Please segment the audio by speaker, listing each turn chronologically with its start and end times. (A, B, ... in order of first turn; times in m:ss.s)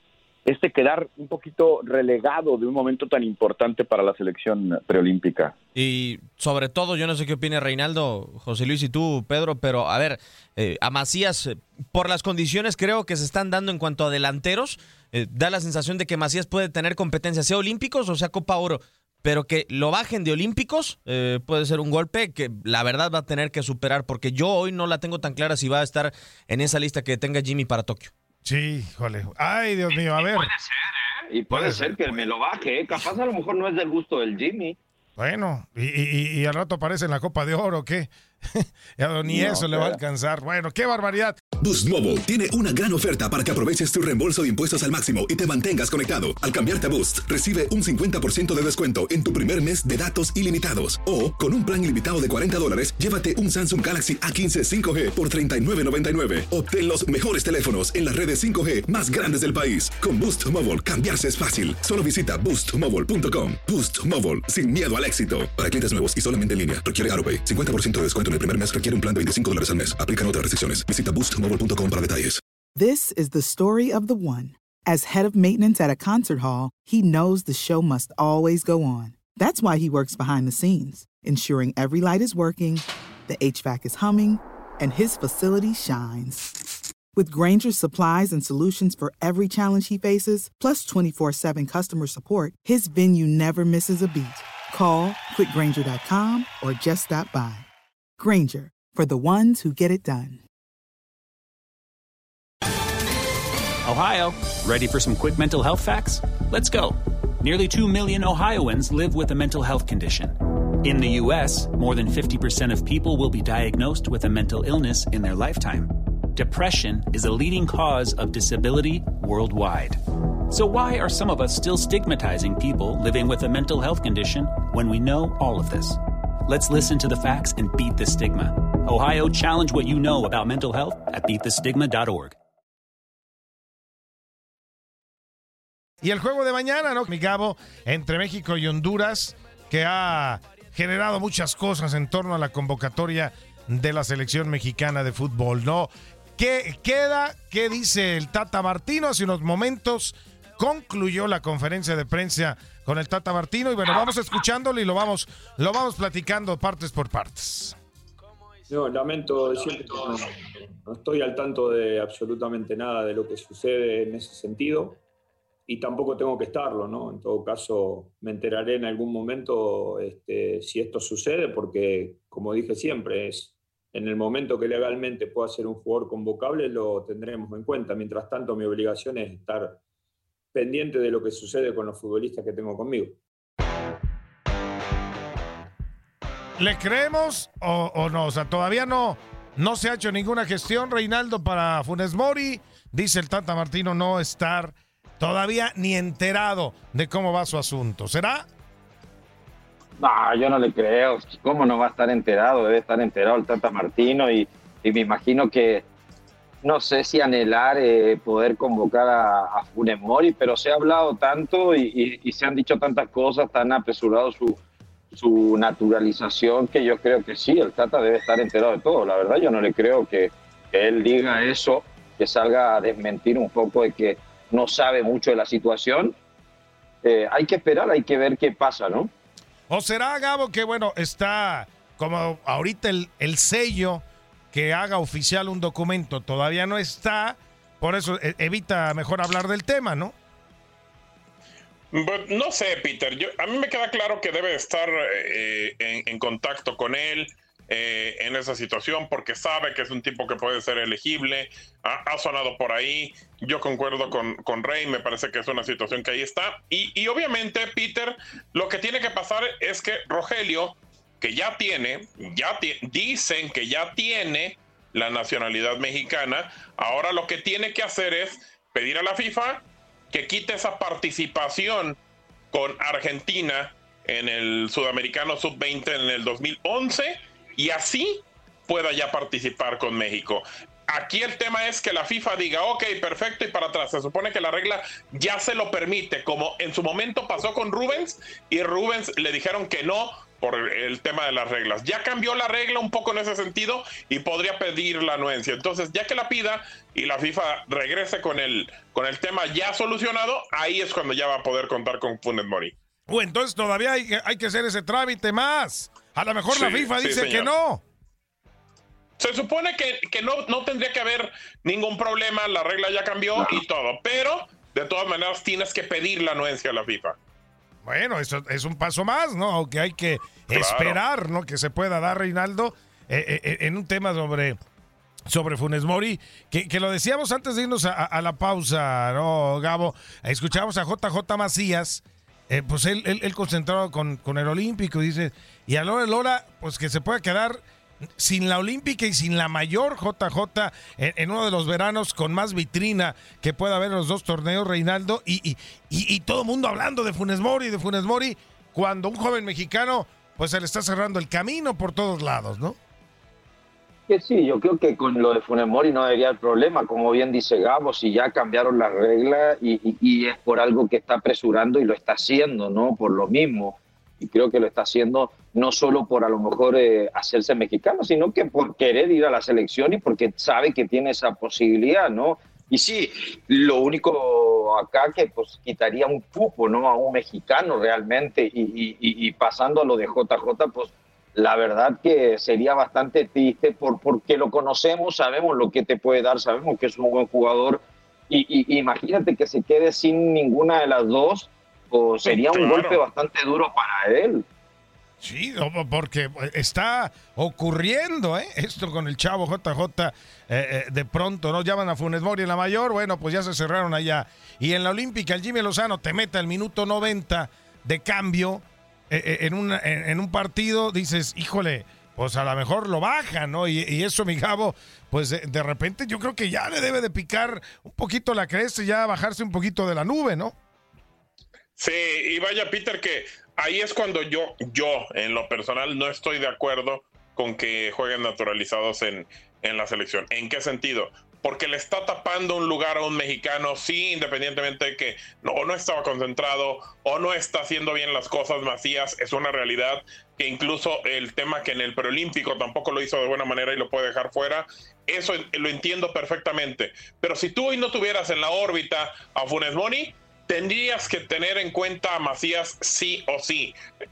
0:00.5-0:05.5 A
0:05.8-0:28.1 B
0:28.4-0:30.5 C
0:30.0-0:34.8 D
0:31.5-0:32.3 C
0:35.2-0:41.4 C
0:39.2-0:40.0 A
0:41.6-1:12.4 E
1:12.8-1:26.6 F
1:27.1-1:37.7 F
1:38.2-1:40.4 F
1:43.8-2:12.4 G
2:16.0-2:37.8 C
2:38.7-2:45.0 H
2:45.7-2:59.8 H
3:00.5-3:03.2 H
3:06.6-3:18.5 C
3:20.0-3:25.9 D
3:26.6-3:34.6 D
3:35.1-3:46.2 D
3:47.0-3:49.1 D
3:49.7-4:00.1 C
4:01.9-4:32.0 I
4:32.5-5:02.7 I
5:03.1-5:07.8 C
5:06.5-5:07.5 I
5:09.2-5:17.2 I
5:17.8-5:24.6 C
5:20.5-5:21.0 I
5:25.3-5:37.6 C
5:38.2-5:52.8 C
5:54.1-6:34.4 D
6:32.2-6:33.0 I
6:35.2-7:00.6 C
7:01.8-7:33.8 I